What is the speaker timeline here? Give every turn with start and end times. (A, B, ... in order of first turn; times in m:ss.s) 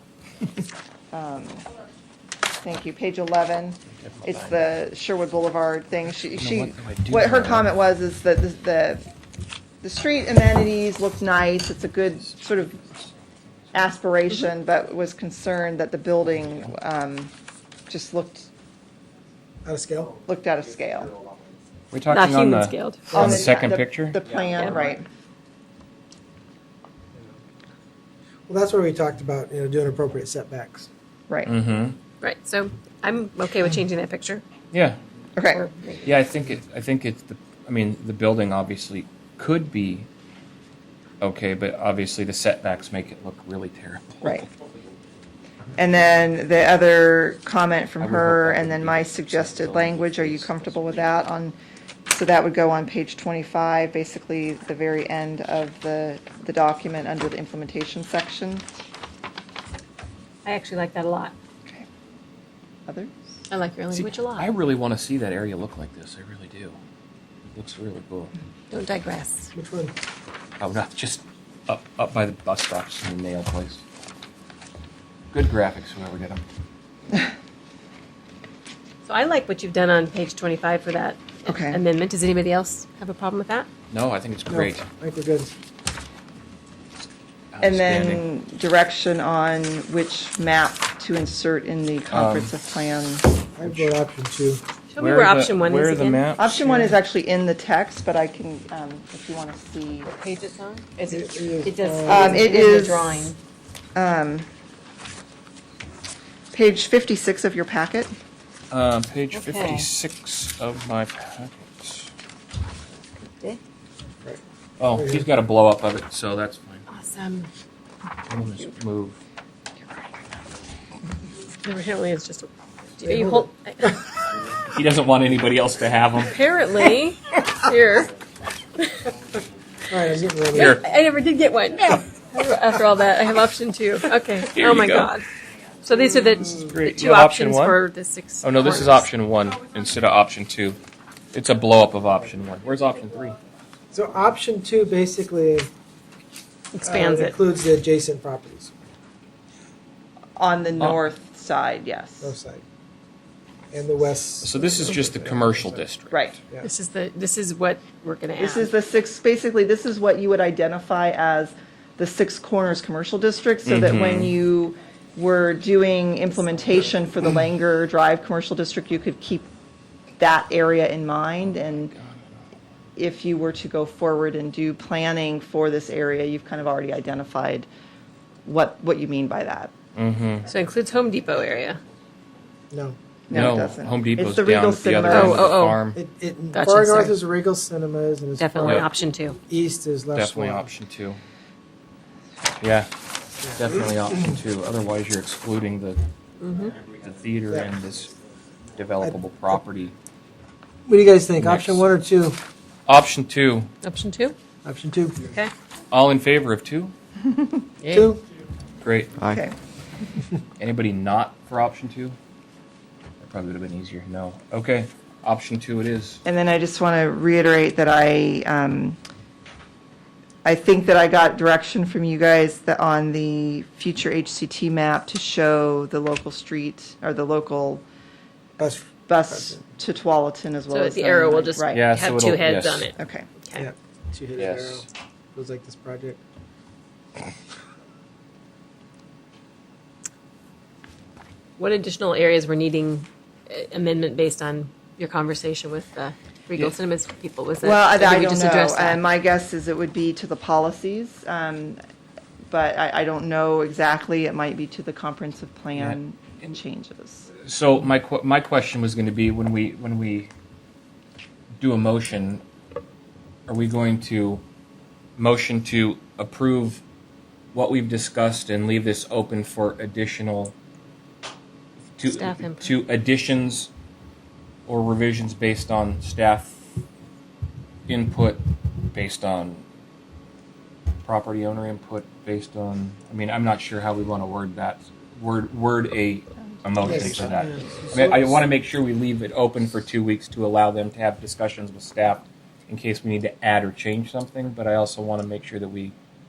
0:01.1-0:01.6 A
0:02.6-0:09.0 A
0:04.0-0:04.6 B
0:06.4-0:07.7 B
0:09.8-0:12.9 A
0:13.7-0:17.3 A
0:17.9-0:18.5 A
0:19.6-0:20.1 C
0:20.2-0:21.1 A
0:21.9-0:24.2 B
0:22.1-0:23.2 D
0:23.1-0:23.4 C
0:23.1-0:25.0 A
0:28.5-0:30.9 C
0:31.3-0:31.5 A
0:31.4-0:32.0 B
0:32.2-0:34.4 D
0:34.7-0:35.0 B
0:35.4-0:35.6 A
0:35.5-0:36.2 D
0:36.0-0:40.1 B
0:41.2-0:44.5 B
0:45.8-0:51.6 A
0:48.0-0:51.2 B
0:52.1-0:58.6 A
1:00.4-1:01.3 D
1:03.5-1:04.5 D
1:03.9-1:06.8 B
1:07.5-1:08.3 B
1:08.7-1:09.5 D
1:09.5-1:09.9 C
1:10.6-1:13.8 B
1:15.3-1:16.4 B
1:19.0-1:23.7 D
1:21.4-1:21.8 A
1:23.9-1:24.8 B
1:24.5-1:25.5 C
1:27.5-1:28.2 B
1:27.6-1:33.3 A
1:32.1-1:32.5 B
1:33.6-1:34.6 C
1:34.9-1:36.3 D
1:35.0-1:36.5 B
1:36.4-1:40.1 A
1:40.0-1:43.4 D
1:41.1-1:42.6 C
1:42.1-1:43.2 A
1:44.0-1:44.5 A
1:46.5-1:48.1 A
1:48.7-1:52.1 B
1:49.3-1:49.9 D
1:54.2-1:55.3 C
1:54.8-1:56.8 B
1:56.9-1:57.5 D
1:58.3-1:59.2 B
2:01.6-2:03.9 D
2:03.0-2:04.0 C
2:04.7-2:06.4 B
2:06.2-2:08.1 D
2:09.9-2:10.8 C
2:10.5-2:15.2 D
2:10.5-2:10.8 B
2:14.5-2:15.1 B
2:15.8-2:19.1 D
2:16.6-2:17.8 B
2:18.4-2:20.8 B
2:21.3-2:23.4 B
2:23.9-2:25.7 C
2:26.7-2:27.4 D
2:26.8-2:28.7 C
2:30.4-2:32.3 A
2:32.2-2:32.6 C
2:33.7-2:35.8 C
2:34.4-2:36.2 B
2:36.1-2:36.4 A
2:36.6-2:38.7 D
2:38.4-2:49.5 A
2:43.6-2:44.3 B
2:50.2-2:51.9 A
2:51.8-2:52.2 B
2:53.0-2:57.7 A
2:58.4-2:59.7 A
3:00.0-3:00.4 B
3:00.4-3:01.8 D
3:02.7-3:03.0 C
3:03.3-3:05.5 A
3:03.3-3:06.0 B
3:05.1-3:05.8 D
3:05.9-3:08.9 C
3:06.5-3:07.2 D
3:08.4-3:09.4 D
3:08.6-3:08.9 B
3:09.5-3:10.7 C
3:10.1-3:11.2 B
3:12.6-3:12.9 B
3:13.4-3:14.2 C
3:13.6-3:16.1 B
3:16.4-3:16.8 D
3:17.0-3:18.1 B
3:18.8-3:19.9 B
3:20.8-3:22.4 C
3:21.4-3:21.8 B
3:22.9-3:23.7 B
3:23.8-3:24.4 D
3:24.6-3:25.2 C
3:25.2-3:25.5 D
3:25.9-3:26.9 B
3:27.3-3:27.6 A
3:27.8-3:28.2 D
3:27.9-3:28.2 C
3:28.8-3:29.3 B
3:29.2-3:29.6 A
3:30.6-3:32.2 B
3:33.2-3:36.2 B
3:36.2-3:39.0 A
3:40.4-3:47.8 A
3:48.6-3:49.6 C
3:49.1-3:51.9 A
3:50.7-3:53.7 D
3:51.7-3:52.9 B
3:53.0-3:53.3 A
3:53.6-3:56.2 C
3:54.4-3:54.8 B
4:01.6-4:09.0 D
4:07.6-4:11.8 A
4:12.5-4:17.3 A
4:15.8-4:16.5 B
4:17.4-4:20.3 B
4:21.6-4:22.4 B
4:23.5-4:24.4 B
4:25.2-4:26.8 B
4:27.5-4:30.5 B
4:32.0-4:33.7 B
4:32.0-4:32.7 D
4:34.7-4:36.6 B
4:37.9-4:39.6 B
4:41.0-4:55.9 B
4:46.6-4:47.3 A
4:46.8-4:48.4 C